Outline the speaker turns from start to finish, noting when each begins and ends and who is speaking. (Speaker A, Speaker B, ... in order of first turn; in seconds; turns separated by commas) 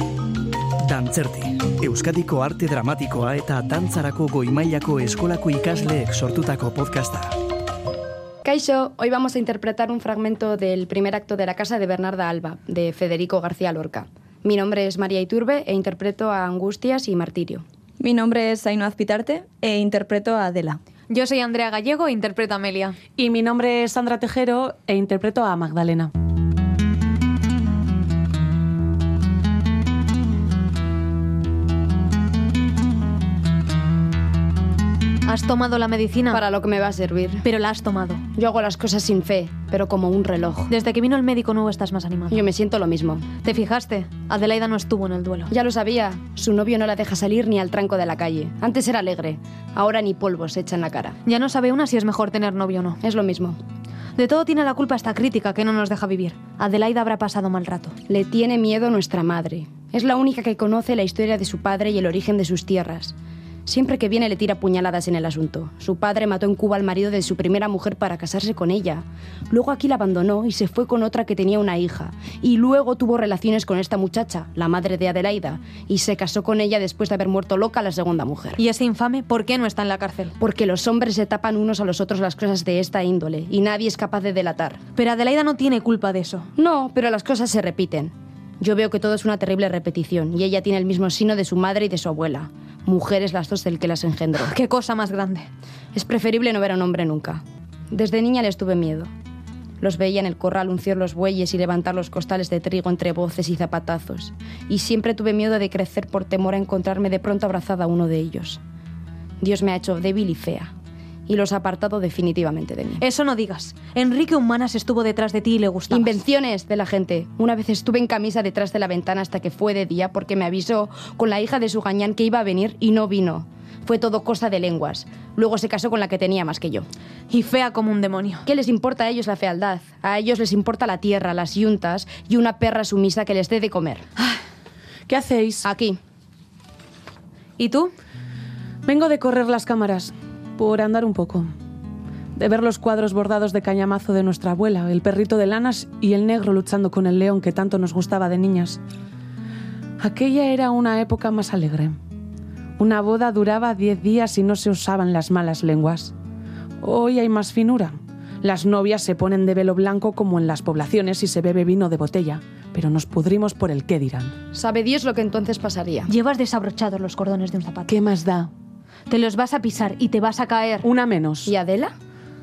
Speaker A: 0.8-7.4, Speaker B: 8.4-17.6, Speaker C: 18.0-20.8, Speaker D: 21.1-23.0, Speaker E: 23.2-26.1, Speaker D: 35.3-36.4, Speaker B: 36.3-37.5, Speaker D: 37.4-38.2, Speaker B: 38.4-40.7, Speaker D: 40.7-42.5, Speaker B: 42.3-43.3, Speaker D: 43.4-45.5, Speaker B: 45.5-51.2, Speaker D: 51.2-53.0, Speaker B: 53.0-53.6, Speaker D: 54.2-58.0, Speaker B: 58.1-63.1, Speaker B: 63.7-78.6, Speaker D: 78.6-80.3, Speaker B: 80.4-84.8, Speaker D: 85.0-86.5, Speaker B: 86.6-94.6, Speaker D: 94.4-95.5, Speaker B: 95.9-99.1, Speaker B: 99.8-108.6, Speaker B: 109.4-110.7, Speaker B: 111.3-113.0, Speaker D: 113.0-116.2, Speaker B: 115.9-126.9, Speaker D: 127.3-128.5, Speaker B: 128.5-134.1, Speaker E: 135.1-135.7, Speaker B: 135.7-136.0, Speaker D: 137.6-137.9, Speaker E: 138.9-141.5, Speaker E: 142.4-148.8, Speaker E: 150.0-152.0, Speaker E: 152.8-156.1, Speaker E: 156.8-164.3, Speaker B: 164.5-166.1, Speaker D: 166.1-167.9, Speaker E: 167.9-168.5, Speaker D: 169.1-170.9, Speaker E: 170.8-171.5, Speaker B: 171.4-171.9